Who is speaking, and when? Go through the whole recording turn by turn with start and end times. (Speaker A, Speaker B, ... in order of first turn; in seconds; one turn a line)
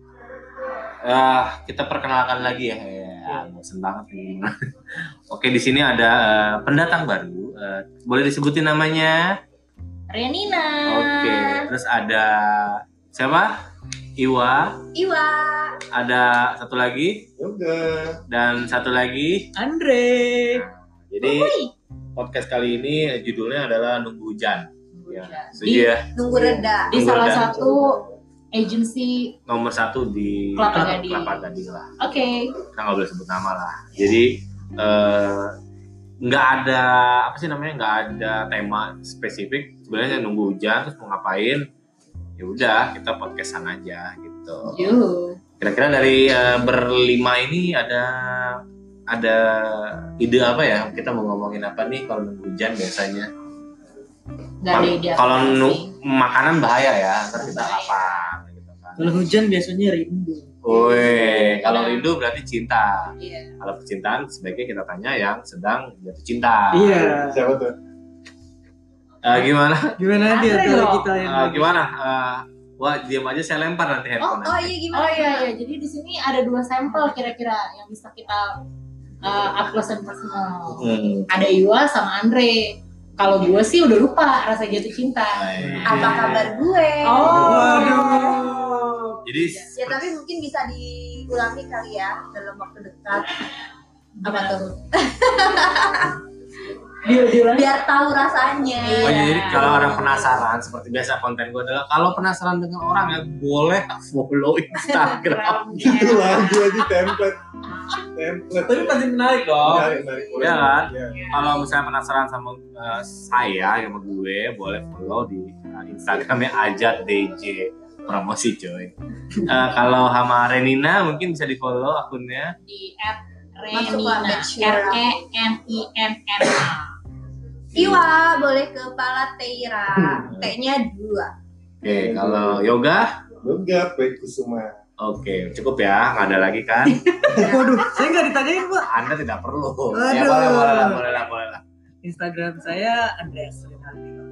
Speaker A: 1.0-4.5
Speaker A: 5.3-9.2
Speaker B: 10.1-11.7
Speaker A: 10.8-13.5
Speaker A: 14.2-14.8
Speaker C: 14.9-15.8
Speaker A: 15.9-17.3
Speaker D: 17.4-18.2
Speaker A: 18.3-19.5
Speaker E: 19.6-20.6
Speaker A: 20.5-21.5
Speaker A: 22.1-26.0
Speaker B: 24.9-25.9
Speaker C: 25.6-27.0
Speaker D: 26.2-28.1
Speaker A: 26.9-27.5
Speaker B: 26.9-28.0
Speaker B: 28.5-29.3
Speaker A: 29.5-31.9
Speaker B: 30.6-31.4
Speaker B: 32.0-32.5
Speaker A: 32.7-35.5
Speaker A: 36.2-41.6
Speaker A: 42.4-45.0
Speaker B: 44.7-45.4
Speaker A: 45.6-53.3
Speaker B: 54.6-55.9
Speaker A: 54.7-59.2
Speaker B: 57.4-58.2
Speaker E: 59.0-60.6
Speaker A: 60.6-67.1
Speaker B: 61.1-62.1
Speaker B: 63.2-63.5
Speaker E: 66.7-67.4
Speaker D: 67.0-67.7
Speaker A: 69.2-70.0
Speaker E: 70.0-71.8
Speaker B: 70.3-71.1
Speaker A: 71.2-74.7
Speaker C: 74.2-75.5
Speaker B: 74.9-78.6
Speaker B: 79.2-85.4
Speaker A: 80.8-81.3
Speaker A: 85.3-86.5
Speaker E: 85.6-86.2
Speaker C: 85.8-89.0
Speaker B: 87.0-89.7
Speaker E: 87.2-89.0
Speaker A: 89.2-90.1
Speaker C: 89.8-93.4
Speaker B: 94.2-94.6
Speaker C: 94.2-96.2
Speaker B: 97.0-97.7
Speaker C: 97.4-100.3
Speaker B: 98.8-99.9
Speaker A: 99.0-105.9
Speaker B: 105.0-106.9
Speaker D: 105.8-107.4
Speaker D: 107.9-111.2
Speaker A: 108.5-122.5
Speaker C: 109.7-110.7
Speaker B: 111.1-111.5
Speaker B: 122.7-126.9
Speaker C: 123.7-125.0
Speaker A: 127.7-128.1
Speaker C: 127.8-131.3
Speaker A: 131.8-133.1
Speaker D: 131.9-132.6
Speaker D: 133.4-134.7
Speaker A: 135.0-137.0
Speaker E: 136.8-138.9
Speaker C: 137.3-138.3
Speaker A: 138.8-141.6
Speaker E: 139.9-141.0
Speaker E: 142.0-144.1